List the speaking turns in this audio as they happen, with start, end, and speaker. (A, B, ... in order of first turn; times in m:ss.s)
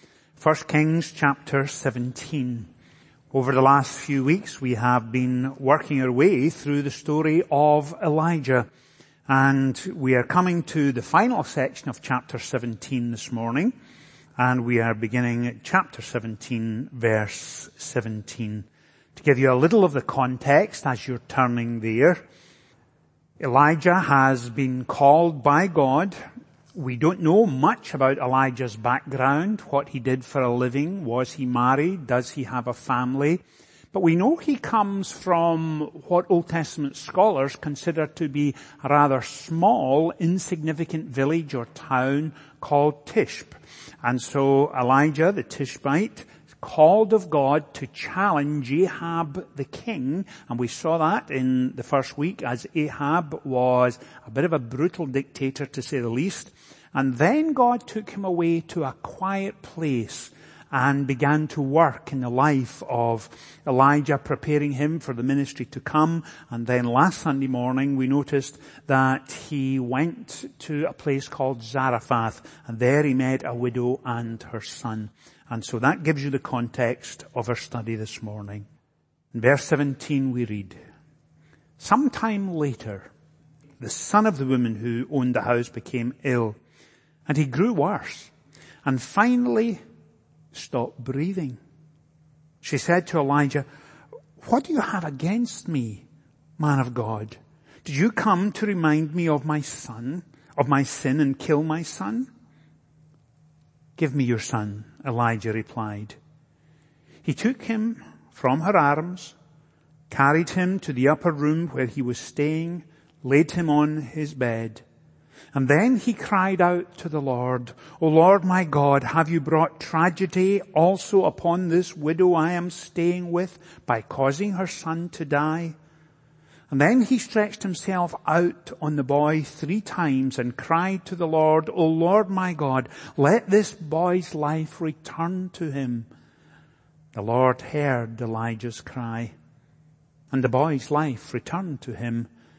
0:00.4-0:02.7 A
0:03.3-0:08.7 A
0:09.3-0:13.7 A
0:14.4-0:22.2 A
0:23.4-0:26.2 A
0:26.7-0:33.4 A
0:33.9-1:18.7 A
1:19.3-1:20.8 A
1:21.8-1:23.1 A
1:23.8-1:26.6 A
1:27.3-1:28.3 A
1:28.8-1:29.8 A
1:30.5-1:31.6 A
1:32.6-1:33.7 A
1:34.4-1:36.0 A
1:36.6-1:42.3 A
1:44.0-1:46.2 A
1:47.2-1:49.4 A
1:50.1-1:54.8 A
1:55.5-2:05.8 A
2:06.7-2:16.1 A
2:17.1-2:19.3 A
2:20.3-2:22.3 A